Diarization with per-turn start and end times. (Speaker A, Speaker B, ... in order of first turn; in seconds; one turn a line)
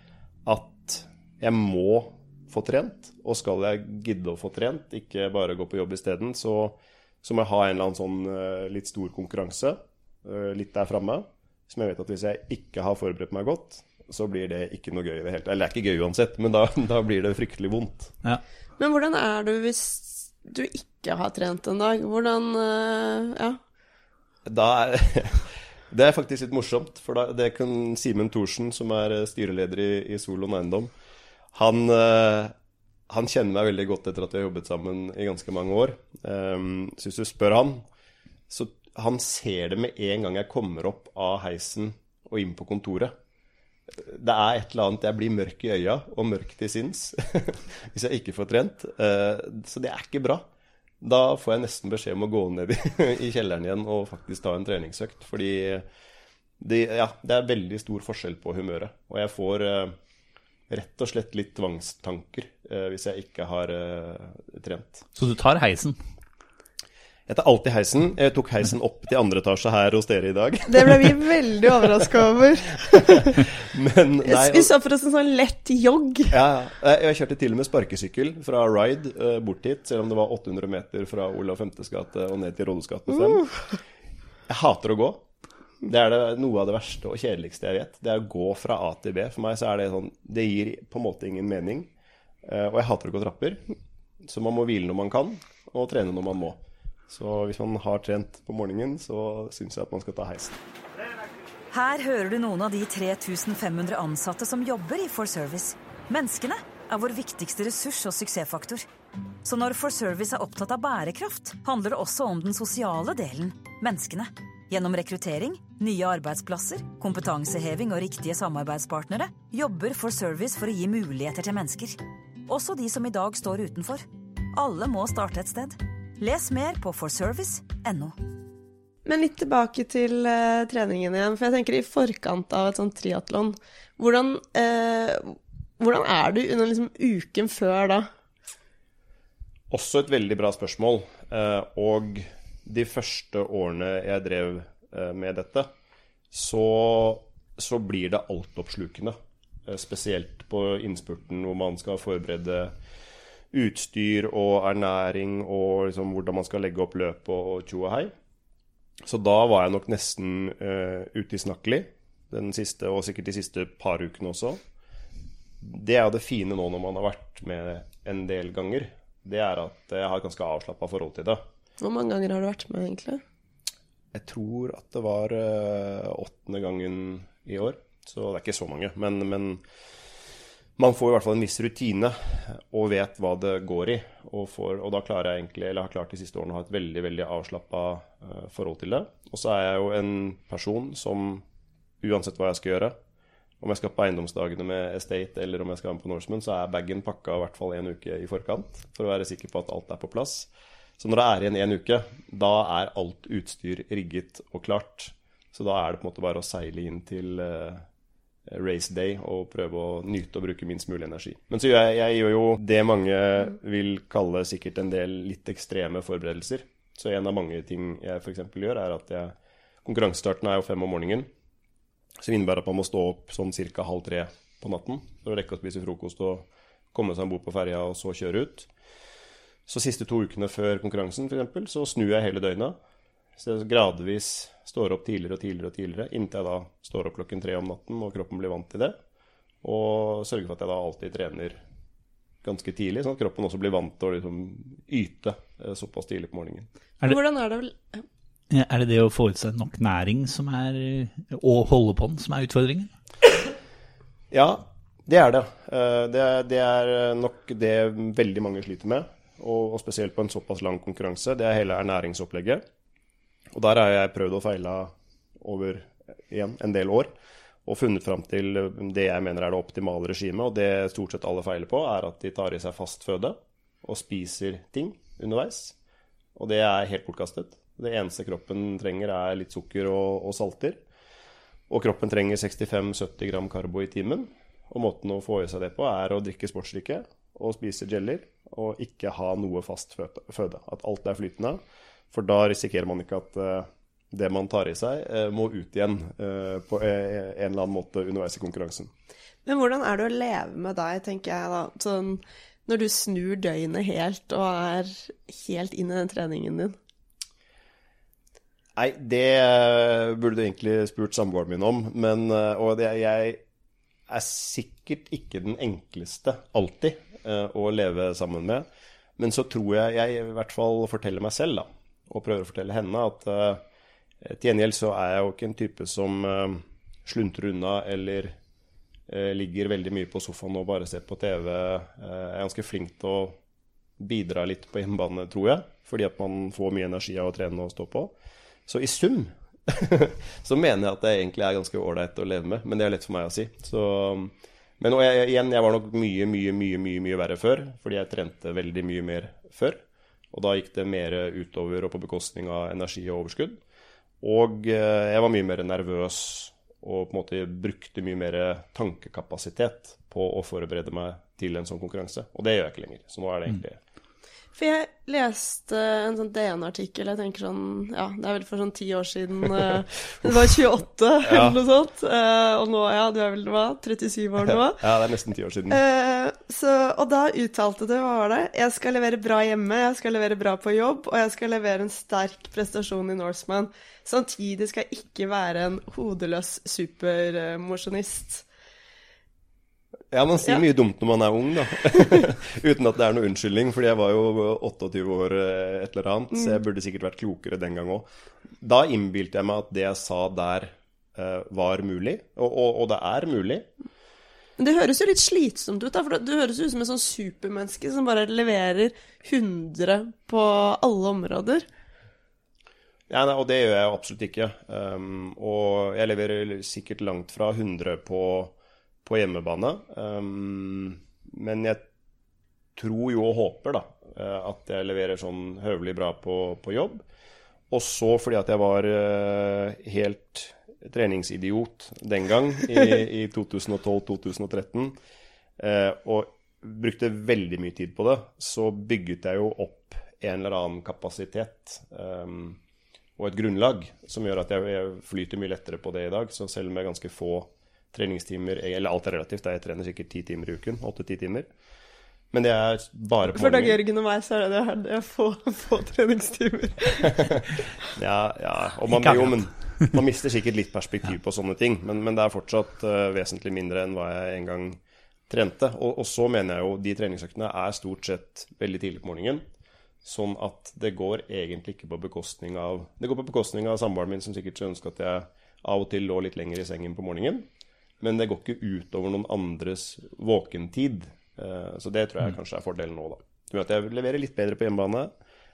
Speaker A: 0.5-18.1
Speaker B: 18.8-23.6
Speaker A: 24.5-30.9
Speaker A: 31.5-32.5
Speaker A: 33.1-37.8
Speaker A: 38.5-43.1
Speaker A: 44.0-50.5
Speaker A: 51.0-55.9
Speaker A: 56.6-60.0
Speaker A: 60.7-65.0
Speaker C: 65.2-66.0
Speaker A: 67.3-71.2
Speaker B: 70.7-73.4
Speaker A: 72.9-74.7
Speaker B: 74.2-76.3
Speaker A: 76.3-83.5
Speaker A: 84.5-85.2
Speaker A: 85.8-91.9
Speaker A: 92.4-93.6
Speaker A: 94.3-100.6
Speaker D: 101.7-108.9
Speaker D: 109.4-128.2
Speaker B: 129.1-138.1
Speaker A: 139.7-145.7
Speaker A: 146.3-149.2
Speaker A: 149.7-152.7
Speaker A: 153.5-158.1
Speaker A: 159.1-164.6
Speaker A: 165.6-171.4
Speaker B: 171.8-173.2
Speaker A: 174.1-179.6
Speaker A: 180.8-191.4
Speaker A: 192.0-192.9
Speaker A: 193.6-207.8
Speaker A: 208.5-221.3
Speaker A: 222.2-228.7
Speaker A: 229.7-232.8
Speaker A: 233.4-239.0
Speaker A: 239.6-241.6
Speaker A: 242.4-246.7
Speaker B: 247.0-248.0
Speaker C: 248.5-252.9
Speaker A: 254.3-262.6
Speaker A: 263.5-267.1
Speaker A: 267.7-275.8
Speaker A: 276.4-280.8
Speaker A: 281.7-298.9
Speaker B: 299.5-306.8
Speaker A: 308.8-313.4
Speaker A: 314.1-318.6
Speaker A: 319.2-323.6
Speaker A: 324.2-328.4
Speaker A: 329.1-333.4
Speaker A: 334.0-338.1
Speaker A: 338.7-349.8
Speaker A: 350.3-353.6
Speaker A: 354.2-363.8
Speaker B: 364.6-374.8
Speaker A: 371.2-371.6
Speaker A: 374.4-375.8
Speaker B: 375.7-388.5
Speaker A: 390.1-398.1
Speaker A: 398.6-403.7
Speaker B: 404.6-411.7
Speaker A: 413.1-421.9
Speaker A: 422.8-427.0
Speaker A: 427.7-435.0
Speaker A: 435.6-442.6
Speaker A: 443.2-451.5
Speaker A: 452.3-453.8
Speaker B: 453.3-457.3
Speaker A: 457.2-469.4
Speaker C: 458.9-459.8
Speaker A: 470.0-477.5
Speaker A: 478.0-485.1